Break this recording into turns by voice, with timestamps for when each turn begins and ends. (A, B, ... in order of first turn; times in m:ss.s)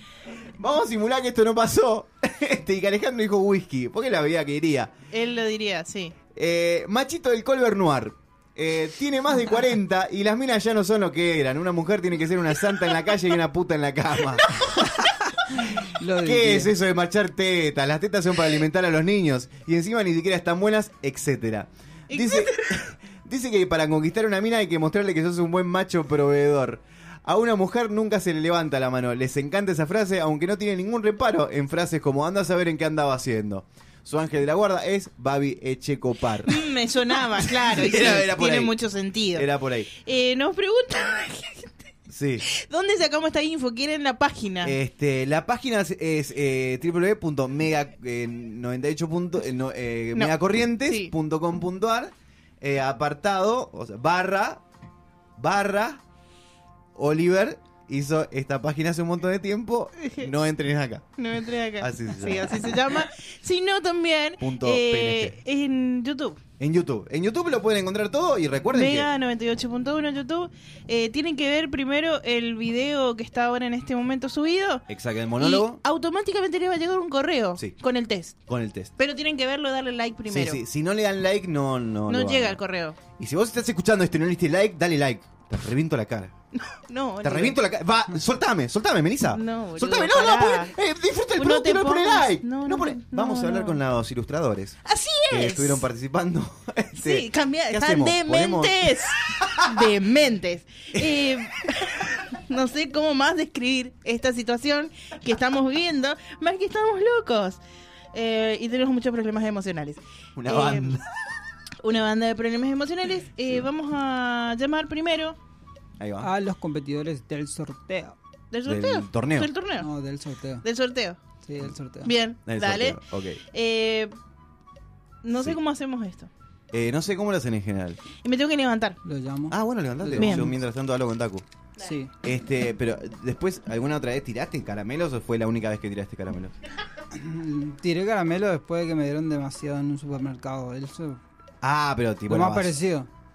0:00.6-0:04.9 A
0:05.1-0:06.2 B
0:06.3-0:14.5 A
0:16.0-0:16.7 C
0:16.2-0:36.6 A
0:22.1-0:22.8 B
0:36.4-0:41.8 B
0:37.4-0:38.7 A
0:39.3-0:39.9 A
0:42.1-0:42.4 A
0:42.4-0:44.8 B
0:44.6-0:54.6 A
0:50.1-0:51.1 B
0:55.4-0:56.0 A
0:56.9-1:01.1 A
1:00.0-1:00.3 B
1:01.2-1:06.4 B
1:01.8-1:02.8 A
1:04.4-1:05.4 A
1:06.6-1:09.1 A
1:08.7-1:14.9 B
1:14.9-1:15.8 A
1:15.4-1:18.4 B
1:18.5-1:18.9 A
1:19.0-1:20.6 B
1:20.3-1:22.6 A
1:22.1-1:23.0 B
1:23.2-1:26.3 A
1:26.5-1:27.6 B
1:27.2-1:34.8 A
1:29.3-1:30.7 B
1:31.4-1:33.8 B
1:34.8-1:35.8 B
1:35.3-1:39.8 A
1:37.0-1:47.6 B
1:40.9-1:41.3 A
1:48.1-1:51.0 B
1:50.4-1:51.1 A
1:51.8-1:55.4 B
1:56.0-1:56.3 A
1:56.2-1:58.2 C
1:58.5-1:59.9 B
1:58.6-1:59.5 A
1:59.8-2:00.6 C
2:00.6-2:01.2 B
2:01.4-2:02.1 C
2:02.0-2:04.1 B
2:02.4-2:03.4 A
2:05.2-2:06.3 B
2:06.7-2:08.0 A
2:08.2-2:09.0 B
2:09.0-2:10.4 C
2:09.5-2:11.4 A
2:10.2-2:10.5 B
2:11.8-2:12.1 C
2:12.2-2:16.6 A
2:17.1-2:21.2 C
2:21.6-2:22.8 A
2:22.3-2:23.1 C